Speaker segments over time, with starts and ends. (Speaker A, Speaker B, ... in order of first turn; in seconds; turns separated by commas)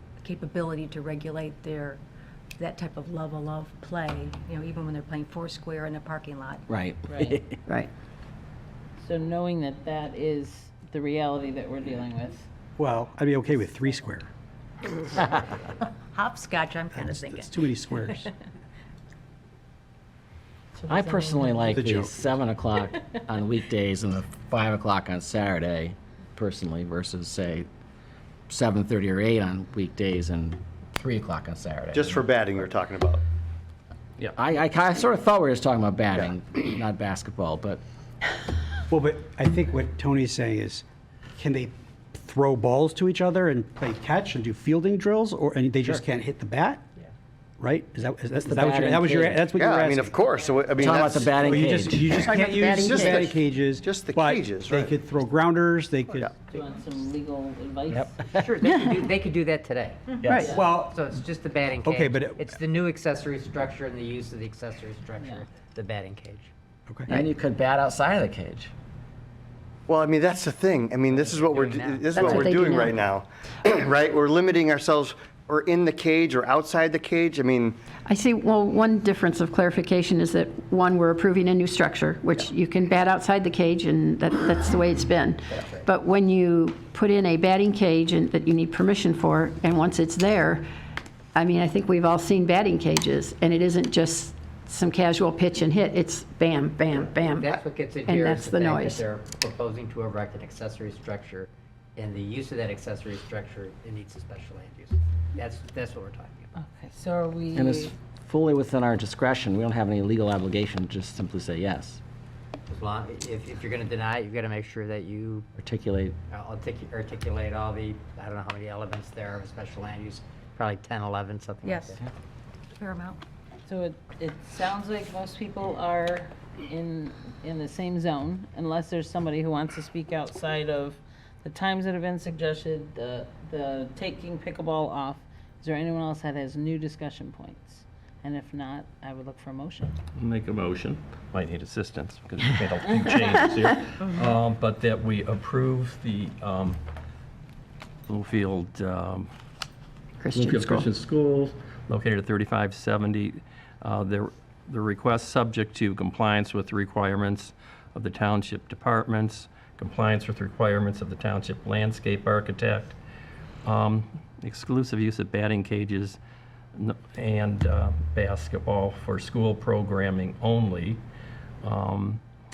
Speaker A: 0.2-2.0, Speaker A: 2.6-6.7, Speaker B: 6.7-7.6, Speaker C: 7.1-7.4, Speaker C: 9.0-12.5, Speaker D: 12.8-14.3, Speaker C: 13.6-14.1, Speaker A: 16.1-17.6, Speaker D: 16.9-18.3, Speaker C: 20.8-21.8, Speaker B: 20.9-27.7, Speaker D: 21.8-22.2, Speaker B: 28.5-32.2, Speaker E: 31.9-33.2, Speaker B: 34.4-37.8, Speaker D: 38.9-40.8, Speaker D: 41.4-46.9, Speaker D: 47.6-50.3, Speaker B: 48.4-49.4, Speaker E: 49.5-52.3, Speaker B: 50.8-52.0, Speaker D: 51.0-56.3, Speaker F: 52.3-53.2, Speaker E: 52.9-55.0, Speaker C: 56.4-58.2, Speaker B: 57.9-58.5, Speaker G: 58.4-60.0, Speaker B: 60.2-60.6, Speaker F: 60.3-60.6, Speaker C: 60.4-60.7, Speaker D: 60.6-61.1, Speaker G: 60.7-66.5, Speaker D: 61.8-62.7, Speaker C: 65.2-65.5, Speaker B: 67.1-68.7, Speaker E: 69.9-77.8, Speaker G: 71.5-72.4, Speaker F: 72.1-73.0, Speaker F: 78.0-90.6, Speaker F: 91.3-99.1, Speaker G: 97.4-106.5, Speaker C: 106.6-107.9, Speaker B: 107.5-112.0, Speaker G: 112.7-115.5, Speaker B: 115.6-116.2, Speaker G: 116.3-122.0, Speaker A: 121.6-122.0, Speaker A: 122.7-123.2, Speaker C: 123.7-140.0, Speaker H: 140.2-146.8, Speaker C: 143.0-143.3, Speaker H: 148.1-149.3, Speaker F: 150.2-150.9, Speaker H: 150.3-163.0, Speaker H: 163.7-166.2, Speaker H: 166.8-171.0, Speaker H: 171.6-172.2